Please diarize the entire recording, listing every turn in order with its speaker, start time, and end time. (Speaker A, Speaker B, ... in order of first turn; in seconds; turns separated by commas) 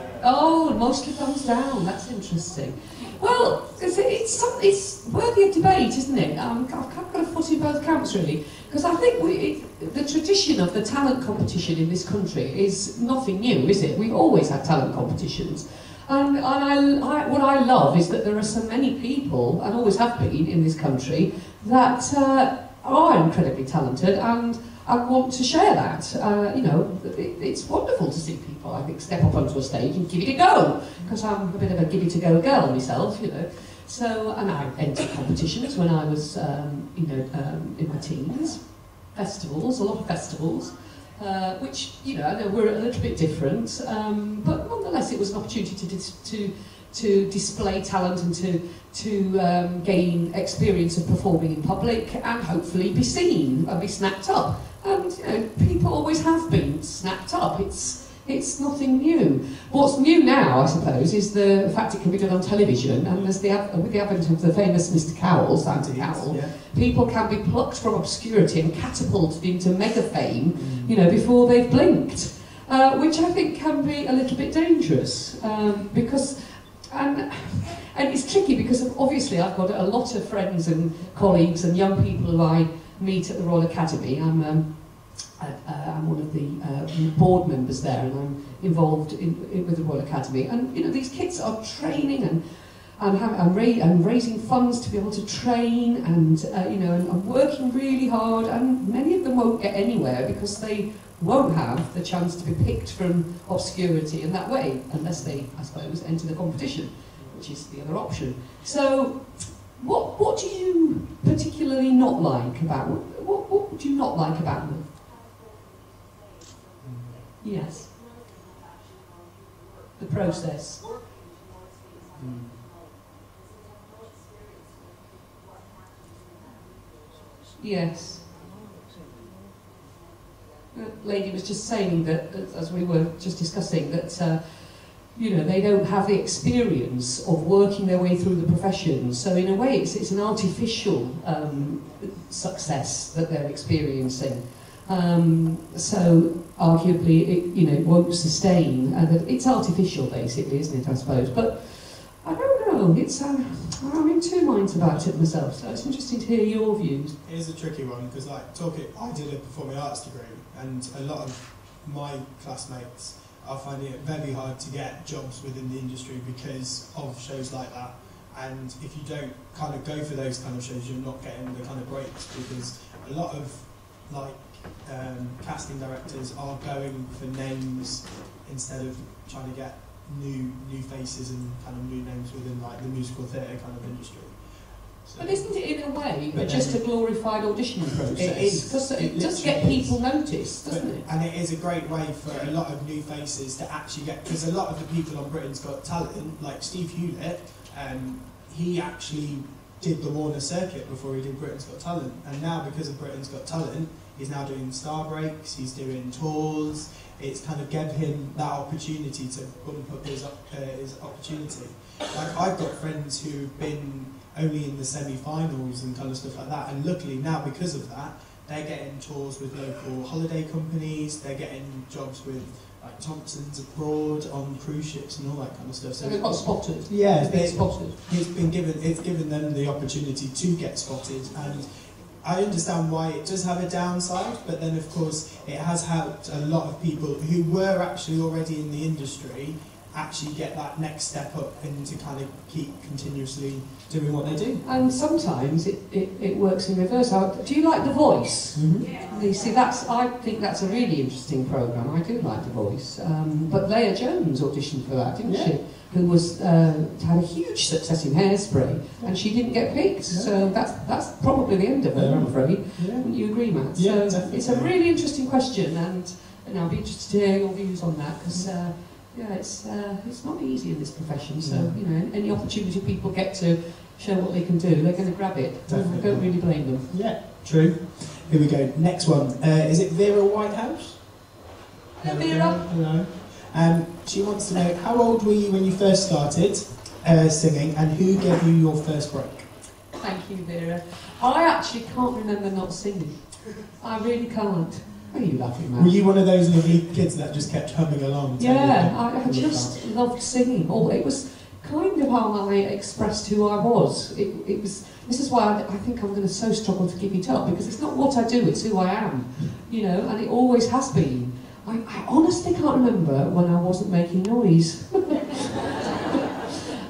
Speaker A: 0.2-114.9, Speaker B: 65.7-66.5, Speaker B: 70.5-70.9, Speaker B: 105.1-105.5, Speaker B: 107.1-107.4, Speaker B: 116.8-117.1, Speaker A: 117.4-117.9, Speaker A: 120.0-120.9, Speaker B: 122.2-122.6, Speaker A: 127.6-128.2, Speaker A: 130.7-157.2, Speaker B: 157.2-187.0, Speaker A: 185.2-191.1, Speaker B: 188.1-244.6, Speaker A: 226.0-228.0, Speaker A: 244.6-276.9, Speaker B: 248.5-248.9, Speaker B: 255.2-255.6, Speaker B: 259.0-259.3, Speaker B: 261.9-264.8, Speaker B: 271.4-271.8, Speaker B: 275.7-281.2, Speaker A: 282.0-282.6, Speaker B: 282.0-289.5, Speaker A: 290.0-295.9, Speaker B: 295.7-299.8, Speaker A: 298.4-316.2